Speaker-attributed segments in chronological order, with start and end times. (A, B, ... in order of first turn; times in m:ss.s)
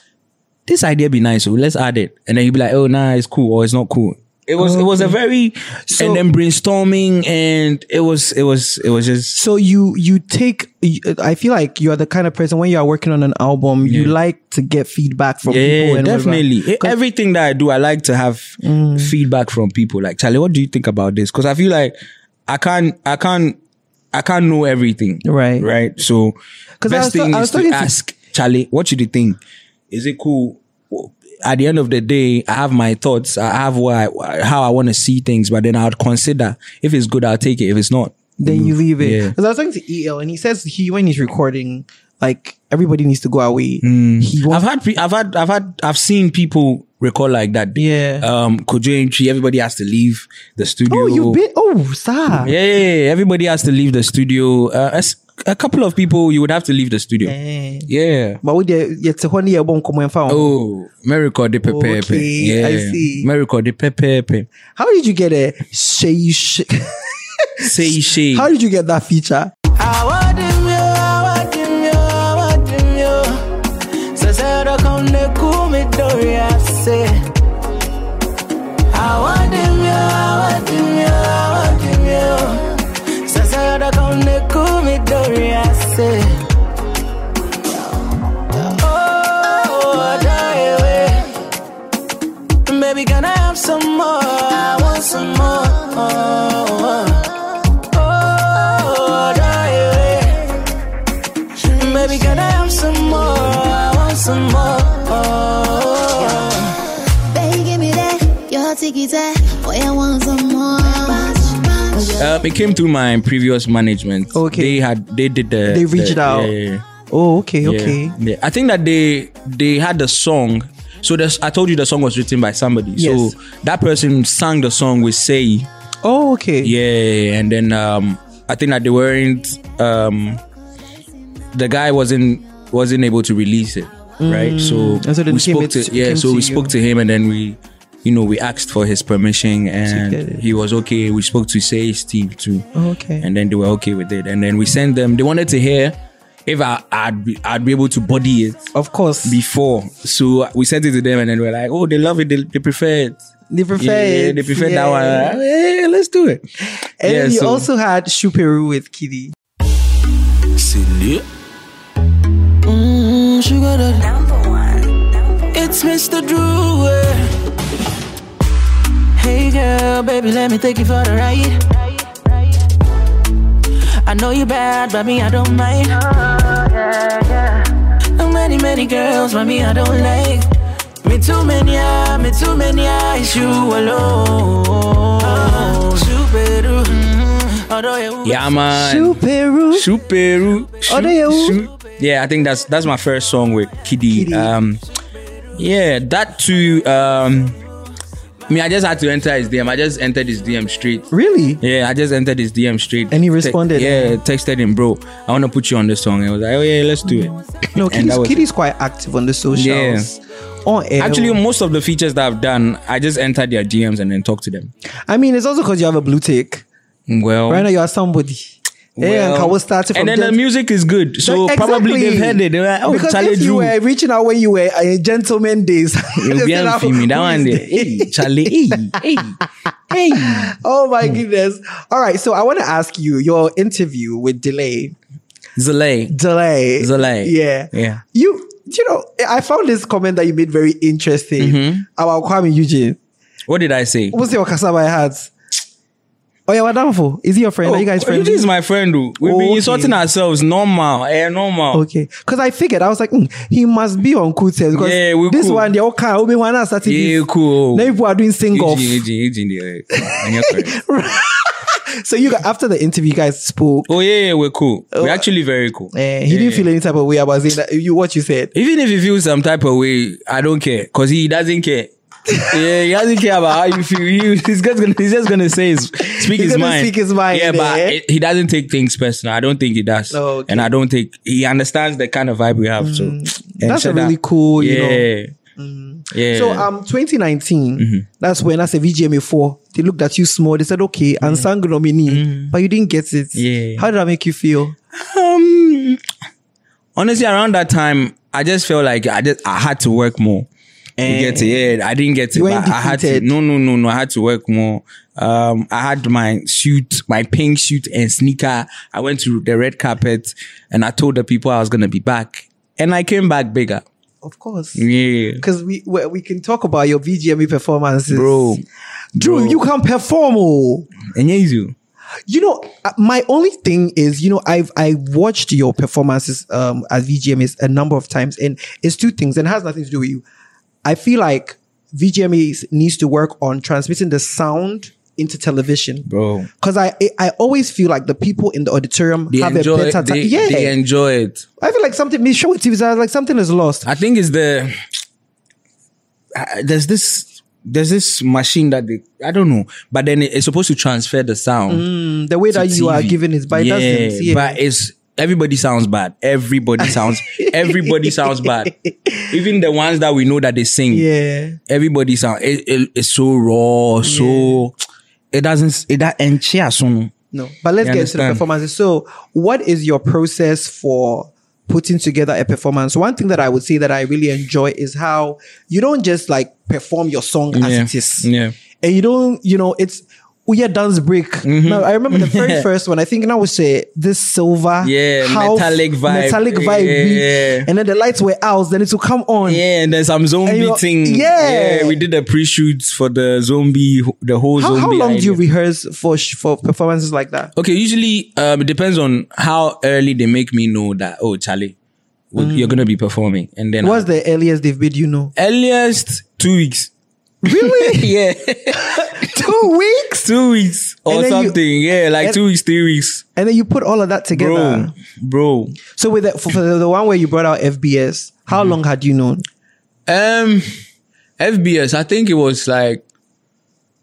0:00.6-0:09.4 A
0:04.6-0:05.1 B
0:05.9-0:06.2 B
0:09.3-0:16.9 B
0:13.8-0:14.1 A
0:15.4-0:22.0 A
0:18.6-0:19.1 B
0:22.5-0:23.6 A
0:24.1-0:39.3 A
0:25.2-0:25.7 B
0:26.8-0:27.9 B
0:38.4-0:44.6 B
0:43.8-0:51.4 A
0:47.8-0:48.2 B
0:50.9-0:52.5 B
0:52.4-0:57.4 A
0:57.2-0:57.9 B
0:57.9-0:58.4 A
0:58.4-1:00.5 B
1:00.3-1:04.5 A
1:01.6-1:03.3 B
1:04.8-1:06.9 B
1:07.6-1:08.5 A
1:08.3-1:09.5 B
1:09.8-1:13.4 C
1:14.1-1:17.2 C
1:18.9-1:26.3 C
1:28.5-1:31.3 C
1:32.6-1:40.5 C
1:41.6-1:46.8 C
1:42.0-1:42.2 D
1:47.3-1:52.3 D
1:52.1-1:56.8 A
1:54.3-1:54.8 B
1:55.7-1:56.5 B
1:57.1-1:58.1 B
1:57.6-2:05.7 A
2:03.0-2:03.3 B
2:06.0-2:06.7 B
2:06.6-2:10.4 A
2:11.5-2:22.6 A
2:14.2-2:16.7 B
2:19.9-2:20.4 B
2:22.7-2:23.3 B
2:23.2-2:28.7 A
2:28.7-2:29.4 B
2:29.2-2:33.2 A
2:33.5-2:35.4 B
2:33.8-2:36.4 A
2:37.0-2:39.3 B
2:37.0-2:37.7 A
2:40.6-2:41.2 A
2:42.6-2:47.3 C
2:49.2-2:52.3 C
2:54.0-2:57.6 C
2:58.2-3:00.4 C
3:01.0-3:08.5 C
3:08.2-3:14.8 A
3:08.7-3:09.9 B
3:10.9-3:11.6 B
3:14.1-3:14.5 B
3:15.6-3:17.6 A
3:18.5-3:21.1 A
3:21.1-3:21.6 B
3:21.6-3:28.4 A
3:23.1-3:24.2 B
3:27.1-3:31.4 B
3:29.5-3:30.1 A
3:31.0-3:34.7 A
3:35.1-3:36.6 B
3:37.1-3:37.7 A
3:37.5-3:40.4 B
3:39.0-3:43.7 A
3:41.2-3:49.0 B
3:46.2-3:49.4 A
3:49.9-3:51.2 A
3:50.1-3:54.9 B
3:55.6-3:56.2 A
3:56.1-4:03.0 B
3:56.8-3:58.0 A
4:01.4-4:01.8 A
4:03.5-4:04.2 A
4:04.1-4:05.3 B
4:06.5-4:08.5 B
4:07.6-4:11.8 A
4:09.2-4:10.0 B
4:11.7-4:19.0 B
4:14.7-4:15.7 A
4:16.8-4:18.0 A
4:18.5-4:20.8 A
4:20.1-4:23.9 B
4:23.9-4:26.7 A
4:24.9-4:25.2 B
4:25.9-4:28.5 B
4:28.5-4:31.9 A
4:32.5-4:45.3 A
4:36.3-4:38.0 B
4:40.1-4:40.7 B
4:42.8-4:45.0 B
4:45.6-4:54.7 B
4:46.1-4:46.7 A
4:47.8-4:48.0 A
4:51.2-4:51.5 A
4:52.0-4:52.5 A
4:53.3-4:53.9 A
4:54.9-4:56.0 A
4:57.0-5:00.5 A
5:01.0-5:01.6 B
5:01.0-5:13.8 A
5:02.3-5:03.3 B
5:14.2-5:14.8 B
5:14.7-5:15.4 A
5:15.4-5:18.6 B
5:18.1-5:18.6 A
5:19.2-5:19.6 A
5:19.2-5:20.9 B
5:21.0-5:21.7 A
5:22.3-5:30.2 B
5:30.8-5:36.0 B
5:36.0-5:36.5 A
5:36.6-5:40.7 B
5:39.3-5:41.4 A
5:41.6-5:43.9 B
5:43.8-5:44.8 A
5:46.3-5:51.8 A
5:51.7-5:54.6 B
5:52.5-5:58.7 A
5:56.8-5:58.4 B
5:59.3-6:01.1 A
6:00.9-6:01.6 B
6:01.7-6:04.7 A
6:04.0-6:04.6 B
6:05.3-6:07.1 A
6:07.3-6:18.3 B
6:07.8-6:08.4 A
6:17.5-6:18.5 A
6:18.8-6:29.6 B
6:21.4-6:22.7 A
6:24.8-6:27.7 A
6:29.4-6:35.4 A
6:30.4-6:32.0 B
6:34.6-6:37.5 B
6:37.5-6:41.8 A
6:42.3-6:44.1 A
6:42.4-6:42.8 B
6:43.8-6:45.3 B
6:45.4-6:46.9 A
6:47.4-6:48.1 B
6:47.4-6:49.6 A
6:49.3-6:50.2 B
6:50.2-6:53.2 A
6:51.1-6:51.6 B
6:53.4-6:54.9 B
6:54.3-6:55.8 A
6:56.0-6:59.4 B
6:58.5-6:58.8 A
7:00.1-7:00.7 A
7:01.4-7:03.0 A